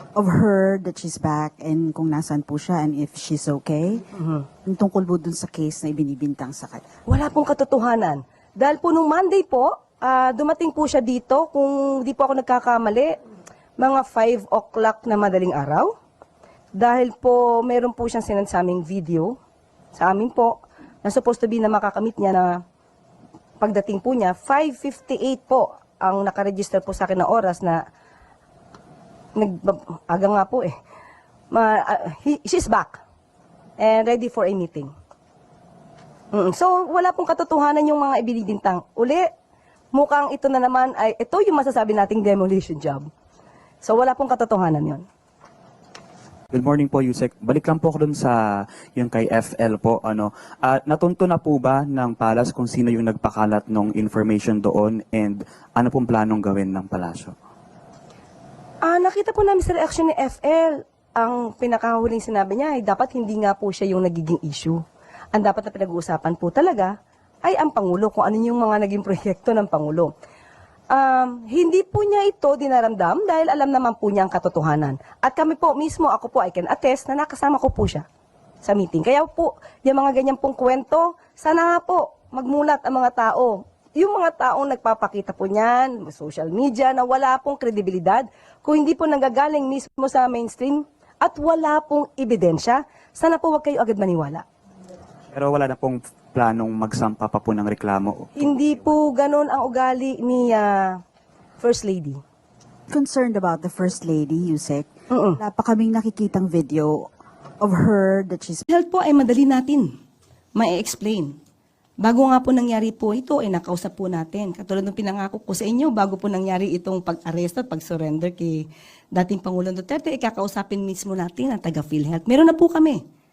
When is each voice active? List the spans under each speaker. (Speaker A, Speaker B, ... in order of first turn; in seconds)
Speaker A: 0.1-4.0, 4.6-6.8, 102.9-107.1, 107.6-108.7
Speaker B: 4.1-4.4, 7.1-13.1, 13.8-15.9, 16.8-19.4, 19.9-22.6, 23.6-27.8, 29.4-30.7, 31.5-33.0, 33.8-34.9, 36.3-39.3, 39.9-43.0, 43.8-45.0, 58.8-64.8, 65.3-70.1, 70.9-78.0, 78.6-94.4, 98.3-101.0, 101.6-102.2, 105.1-105.4, 108.7-109.9, 110.5-111.3, 112.0-123.0
Speaker C: 46.5-57.3, 95.3-98.6